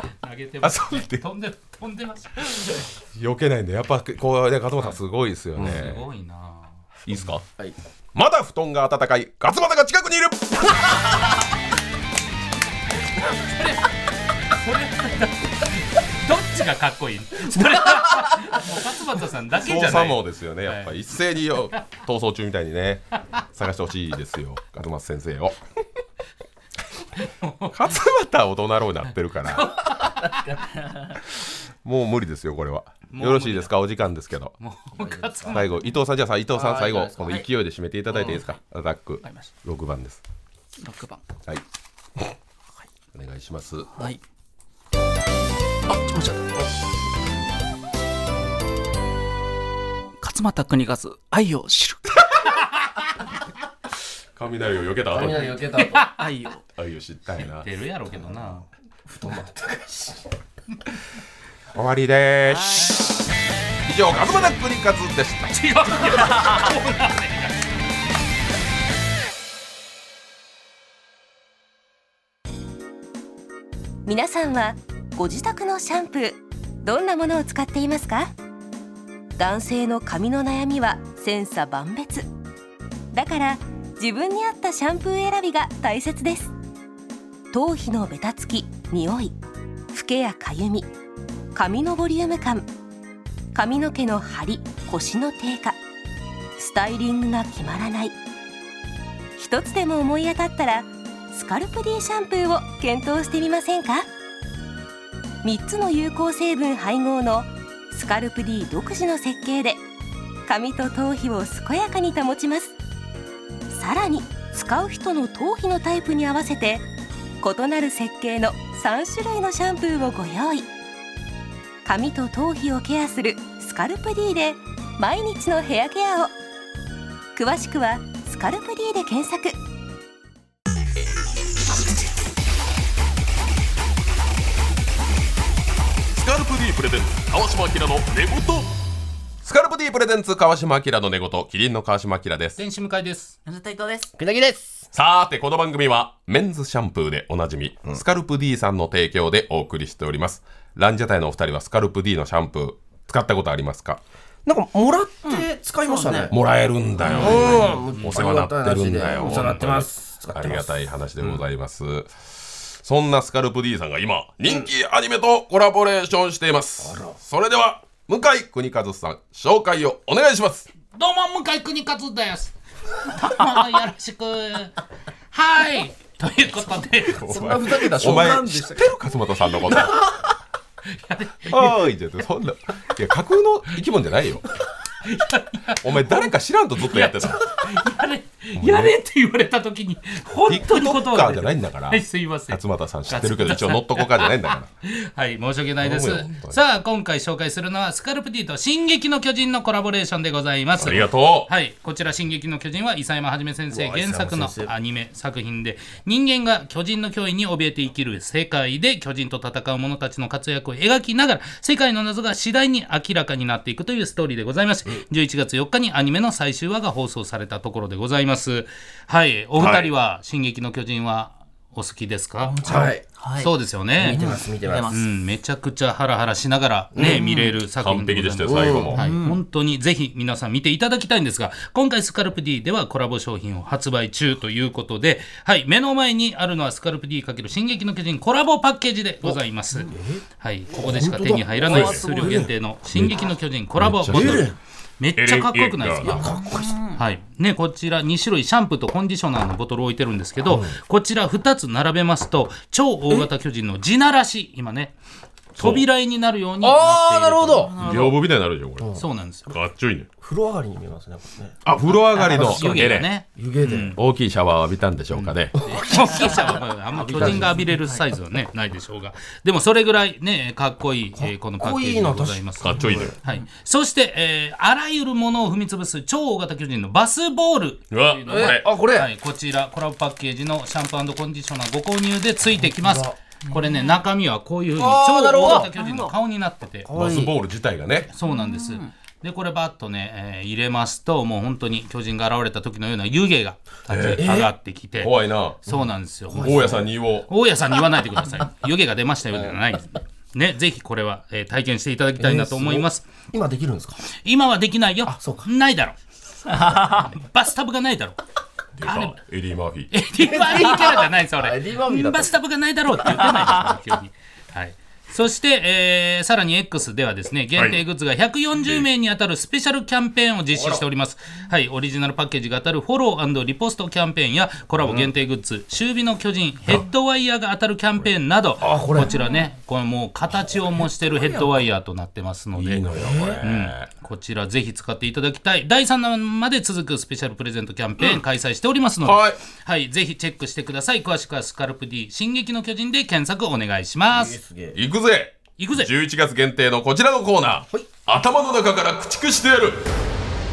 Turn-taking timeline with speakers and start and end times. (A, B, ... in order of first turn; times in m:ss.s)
0:00.2-0:02.5 A
0:00.6-0:01.2 B
0:02.5-0:06.1 B
0:05.6-0:06.8 A
0:07.0-0:07.4 B
0:08.1-0:11.1 B
0:13.2-0:13.9 A
0:14.5-0:21.0 A
0:19.5-0:25.6 B
0:27.2-0:27.7 A
0:27.6-0:29.9 B
0:29.5-0:30.4 A
0:30.0-0:30.8 C
0:31.8-0:34.5 B
0:33.1-0:33.7 A
0:34.6-0:35.8 A
0:34.9-0:35.6 C
0:35.4-0:40.2 B
0:36.5-0:37.4 C
0:40.8-0:41.2 D
0:43.1-0:44.0 B
0:45.9-0:46.6 D
0:50.2-0:52.2 D
0:54.4-0:55.6 B
0:55.1-0:56.1 C
0:56.1-0:56.6 D
0:56.8-0:57.7 B
0:57.4-0:58.6 A
0:59.0-1:00.2 C
1:01.7-1:03.2 B
1:03.8-1:05.6 B
1:05.5-1:07.8 A
1:14.0-1:18.3 E
1:19.4-1:22.3 E
1:23.1-1:26.5 E
1:27.5-1:29.4 E
1:29.9-1:30.9 E
1:31.5-1:32.7 E
1:33.5-1:35.8 E
1:36.6-1:38.2 E
1:39.4-1:44.0 E
1:45.4-1:49.8 E
1:50.4-1:52.8 E
1:53.7-1:56.8 E
1:57.4-2:00.7 E
2:01.8-2:06.3 E
2:07.4-2:09.6 E
2:16.1-2:18.7 B
2:19.4-2:22.6 B
2:22.6-2:23.4 A
2:23.4-2:24.1 D
2:24.2-2:24.9 C
2:24.9-2:34.0 B
2:34.4-2:36.3 C
2:35.2-2:36.3 D
2:36.3-2:50.7 B
2:37.1-2:40.7 C
2:37.2-2:38.1 A
2:46.8-2:47.2 C
2:50.9-2:54.8 A
2:55.3-2:57.3 A
2:57.0-3:00.0 B
2:57.2-2:58.9 C
3:00.9-3:01.8 A
3:01.5-3:04.5 B
3:05.0-3:06.3 A
3:05.8-3:07.5 B
3:06.8-3:44.3 A
3:08.6-3:09.0 B
3:10.5-3:14.7 B
3:15.8-3:16.6 B
3:20.8-3:21.5 B
3:23.7-3:24.7 C
3:39.6-3:39.9 B
3:42.5-3:43.5 D
3:42.6-3:43.0 C
3:44.0-3:44.9 C
3:44.0-3:45.0 D
3:44.9-4:06.3 A
3:46.9-3:47.2 C
3:47.0-3:47.5 D
3:47.8-3:49.1 B
3:48.4-3:48.9 C
3:48.9-3:49.4 D
3:59.2-4:00.2 C
4:00.7-4:02.5 C
4:01.7-4:02.0 B
4:02.9-4:04.5 B
4:04.1-4:04.6 C
4:05.2-4:06.3 B
4:06.0-4:06.9 C
4:06.3-4:06.8 D
4:07.0-4:15.0 A
4:15.5-4:18.1 A
4:15.6-4:15.8 B
4:16.6-4:17.7 C
4:17.7-4:18.1 D
4:17.8-4:18.9 B
4:19.0-4:19.5 A
4:19.5-4:20.1 B
4:20.2-4:21.6 C
4:21.6-4:23.1 B
4:22.1-4:24.0 C
4:22.2-4:24.0 A
4:23.9-4:25.5 B
4:25.1-4:46.9 A
4:25.6-4:27.8 C
4:31.2-4:33.1 C
4:32.6-4:33.1 B
4:37.9-4:38.7 B
4:38.3-4:39.1 C
4:42.6-4:43.1 C
4:43.5-4:44.0 D
4:44.8-4:45.7 C
4:45.5-4:46.1 D
4:46.9-4:47.3 C
4:46.9-4:48.1 B
4:48.1-5:03.0 A
4:48.2-4:48.9 D
4:53.9-4:55.6 B
4:55.7-4:56.9 C
4:56.3-4:57.3 B
5:02.2-5:04.0 C
5:04.2-5:06.0 A
5:05.1-5:05.5 C
5:06.5-5:08.2 A
5:08.8-5:09.9 B
5:08.8-5:09.2 A
5:09.9-5:32.8 A
5:10.2-5:12.3 C
5:17.6-5:17.8 B
5:18.6-5:18.9 B
5:20.5-5:20.8 C
5:28.6-5:29.2 C
5:32.5-5:33.9 B
5:33.0-5:33.4 C
5:33.4-5:44.4 A
5:39.0-5:39.4 B
5:44.1-5:44.8 C
5:44.7-5:49.9 B
5:45.6-5:45.9 A